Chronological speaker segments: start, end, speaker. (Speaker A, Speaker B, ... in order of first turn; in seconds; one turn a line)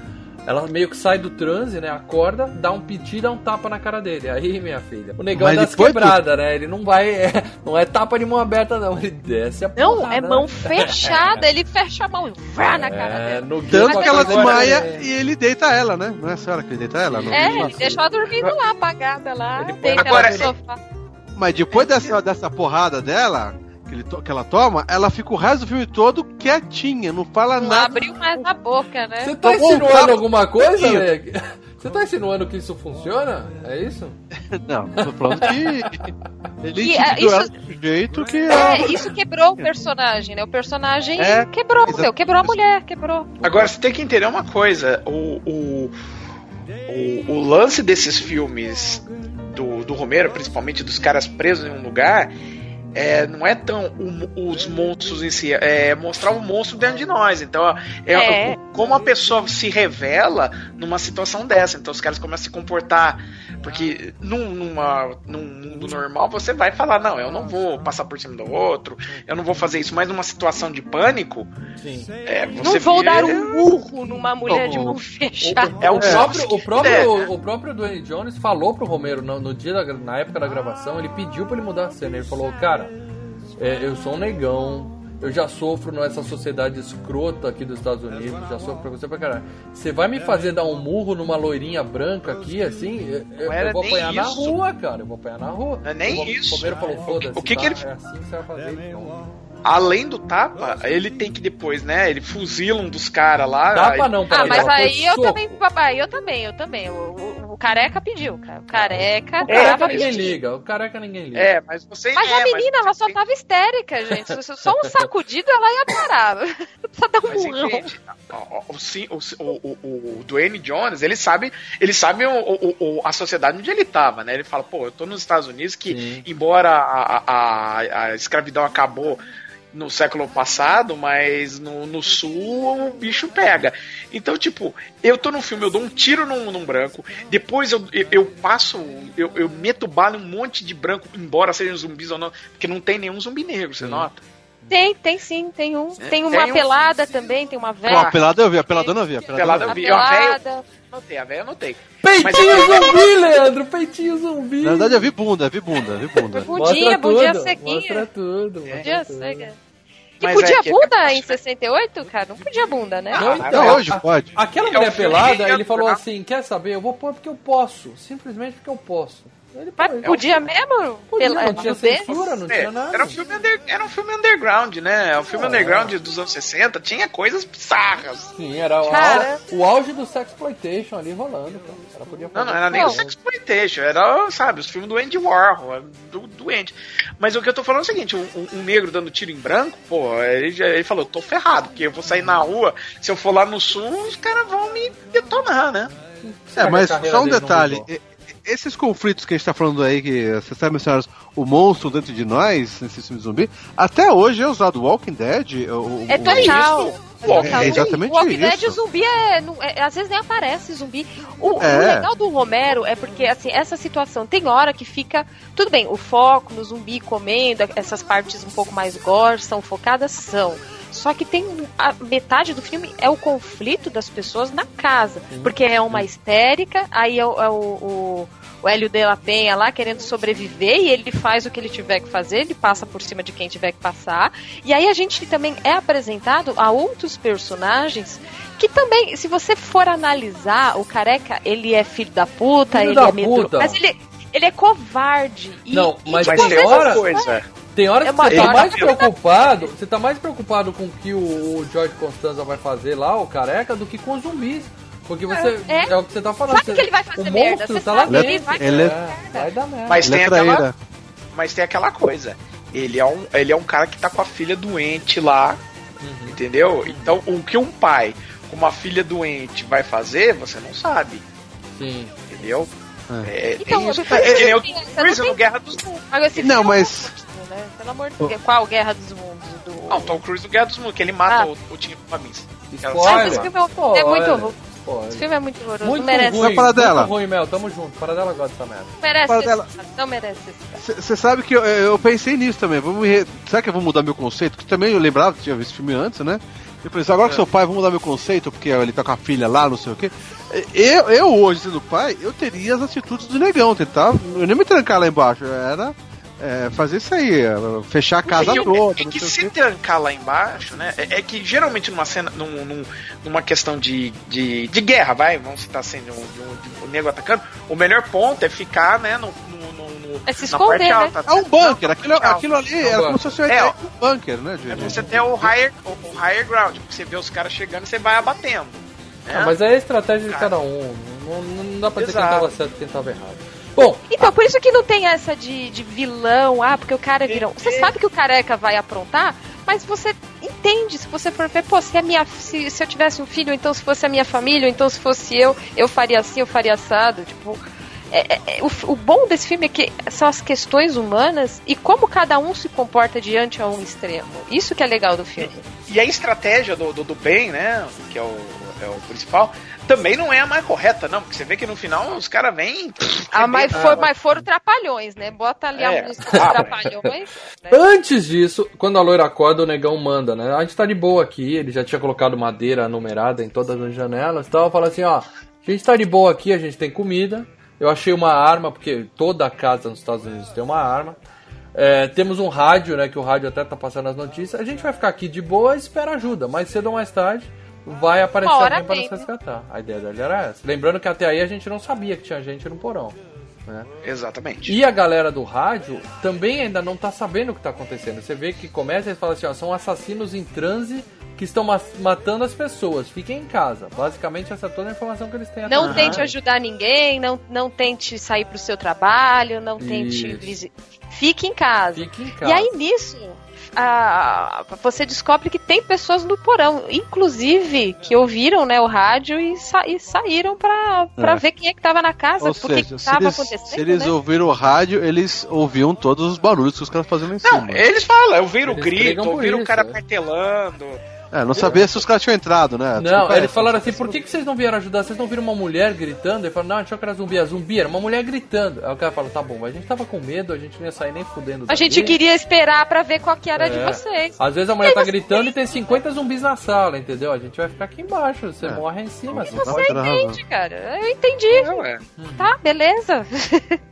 Speaker A: 0.5-11.4
Speaker B: 5.3-6.2
Speaker C: 9.8-14.7
Speaker A: 12.7-15.1
Speaker B: 13.7-18.0
Speaker A: 17.0-18.5
Speaker C: 17.3-20.8
Speaker A: 19.6-20.5
Speaker D: 19.9-20.5
Speaker B: 21.4-28.0
Speaker C: 27.6-29.3
Speaker A: 29.2-34.2
Speaker B: 29.4-31.1
Speaker B: 34.5-36.0
Speaker A: 35.0-35.9
Speaker B: 36.6-39.1
Speaker C: 36.7-37.5
Speaker C: 38.5-43.3
Speaker B: 41.2-42.6
Speaker A: 43.4-43.7
Speaker D: 43.4-45.9
Speaker D: 46.9-52.3
Speaker D: 52.9-71.5
Speaker C: 58.1-58.6
Speaker A: 71.8-72.1
Speaker D: 72.2-73.7
Speaker C: 72.6-76.0
Speaker B: 74.5-74.9
Speaker A: 74.5-82.9
Speaker D: 75.7-77.3
Speaker B: 76.0-76.2
Speaker A: 83.6-99.2
Speaker D: 93.4-94.6
Speaker D: 95.8-97.8
Speaker D: 99.6-104.7
Speaker A: 103.7-105.6
Speaker C: 104.3-110.4
Speaker A: 108.7-111.5
Speaker D: 109.4-110.3
Speaker D: 111.3-113.2
Speaker C: 112.2-117.9
Speaker A: 114.8-115.1
Speaker D: 117.3-144.2
Speaker A: 125.9-126.3
Speaker A: 143.8-144.1
Speaker C: 144.7-148.1
Speaker D: 146.0-146.7
Speaker B: 147.8-149.8
Speaker D: 147.8-148.2
Speaker C: 148.7-150.6
Speaker D: 149.3-150.4
Speaker D: 150.9-153.1
Speaker A: 152.0-155.1
Speaker C: 152.5-152.8
Speaker B: 154.6-156.5
Speaker C: 156.3-158.0
Speaker A: 156.5-159.5
Speaker C: 158.8-159.6
Speaker C: 160.2-163.4
Speaker D: 160.2-161.4
Speaker D: 163.1-163.9
Speaker A: 163.1-170.2
Speaker B: 163.5-164.3
Speaker D: 164.6-166.0
Speaker C: 169.8-172.1
Speaker D: 170.0-170.4
Speaker A: 171.1-173.2
Speaker D: 171.5-178.3
Speaker A: 175.3-175.9
Speaker A: 178.3-183.1
Speaker C: 178.9-179.4
Speaker D: 178.9-179.3
Speaker D: 182.3-195.9
Speaker C: 182.7-183.0
Speaker A: 192.1-192.4
Speaker A: 196.2-197.8
Speaker B: 196.5-206.6
Speaker C: 206.1-247.3
Speaker D: 206.2-207.9
Speaker B: 207.3-208.8
Speaker B: 211.6-212.1
Speaker A: 225.3-226.1
Speaker A: 242.7-243.8
Speaker A: 245.7-247.0
Speaker D: 246.2-247.5
Speaker A: 247.7-260.1
Speaker C: 248.0-249.6
Speaker D: 248.3-248.9
Speaker C: 255.3-255.9
Speaker C: 256.5-259.5
Speaker B: 258.1-258.9
Speaker D: 259.9-260.6
Speaker B: 260.0-260.7
Speaker D: 261.3-265.6
Speaker A: 266.0-267.2
Speaker D: 266.3-271.2
Speaker A: 271.8-272.1
Speaker D: 272.3-272.7
Speaker D: 273.2-275.9
Speaker C: 273.6-280.2
Speaker B: 274.1-274.5
Speaker B: 276.4-277.1
Speaker D: 279.9-283.5
Speaker A: 282.7-285.2
Speaker C: 283.0-284.6
Speaker C: 285.1-286.6
Speaker A: 285.8-288.9
Speaker B: 286.4-287.1
Speaker C: 289.0-290.8
Speaker B: 289.3-289.6
Speaker B: 290.8-309.5
Speaker D: 308.3-322.4
Speaker C: 320.2-321.1
Speaker B: 321.2-325.5
Speaker A: 322.8-323.2
Speaker D: 323.5-323.7
Speaker D: 324.7-329.6
Speaker A: 324.9-325.1
Speaker A: 329.3-334.3
Speaker D: 330.3-330.5
Speaker D: 331.9-332.5
Speaker C: 334.1-355.6
Speaker D: 337.3-337.9
Speaker D: 355.4-364.1
Speaker C: 363.3-367.8
Speaker A: 363.7-364.4
Speaker D: 365.8-366.8
Speaker A: 366.3-367.1
Speaker A: 367.7-381.2
Speaker A: 381.7-393.1
Speaker C: 388.4-389.3
Speaker D: 394.0-394.8
Speaker A: 394.6-406.3
Speaker C: 405.7-424.1
Speaker D: 405.8-406.2
Speaker A: 409.8-410.5
Speaker A: 411.9-412.7
Speaker B: 421.2-421.4
Speaker B: 422.4-427.8
Speaker D: 427.4-431.0
Speaker A: 428.6-430.0
Speaker B: 431.3-434.2
Speaker A: 431.5-431.9
Speaker A: 433.0-442.2
Speaker C: 441.7-446.0
Speaker A: 443.6-450.0
Speaker B: 448.6-450.4
Speaker C: 449.5-451.8
Speaker D: 451.5-452.0
Speaker A: 452.2-452.5
Speaker C: 452.4-453.8